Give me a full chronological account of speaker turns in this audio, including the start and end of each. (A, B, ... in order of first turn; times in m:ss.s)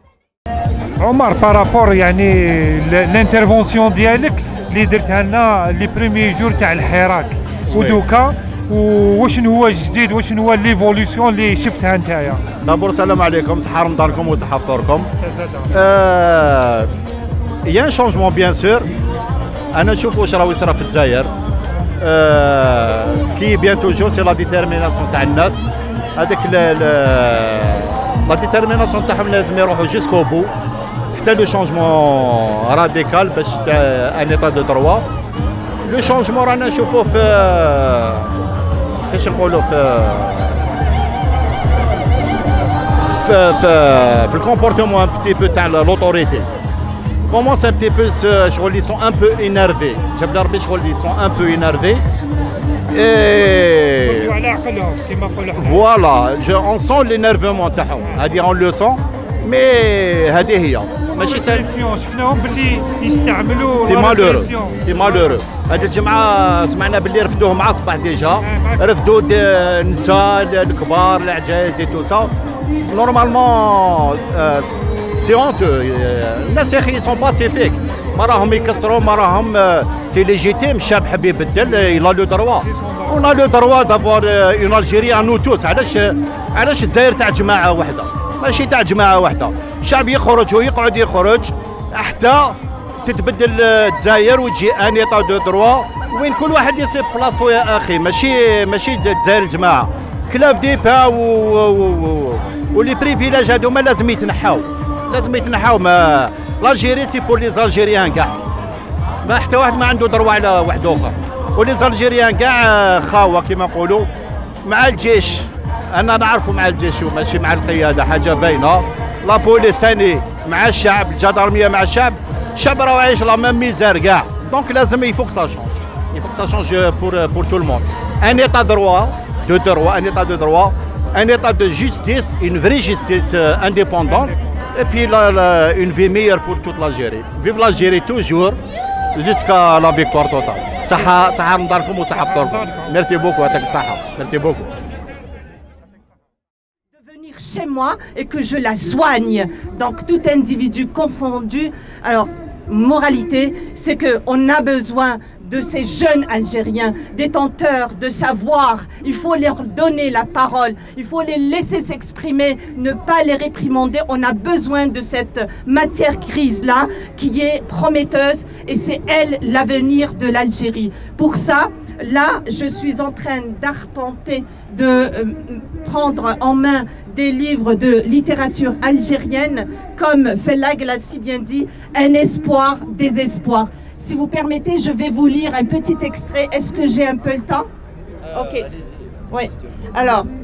0:01.0-0:12.4 A
0:07.7-0:08.0 B
0:12.6-0:15.1 B
0:15.2-0:15.7 A
0:15.7-0:16.9 B
0:17.6-0:18.9 B
0:19.7-0:21.3 B
0:22.0-0:25.6 B
0:26.2-0:30.5 B
0:31.1-0:35.0 B
0:35.8-0:38.3 B
0:39.0-0:40.6 B
0:43.2-0:46.5 B
0:47.3-0:52.0 B
0:52.9-0:54.3 B
0:54.0-0:55.8 A
0:55.6-1:01.6 B
1:01.1-1:05.4 A
1:03.8-1:12.3 B
1:08.4-1:08.9 A
1:12.9-1:48.4 B
1:22.6-1:23.2 A
1:49.2-1:54.1 B
1:54.6-2:18.6 B
2:19.1-2:24.7 B
2:22.2-2:22.9 A
2:27.0-3:07.7 C
3:08.3-3:08.7 C
3:09.3-3:10.3 C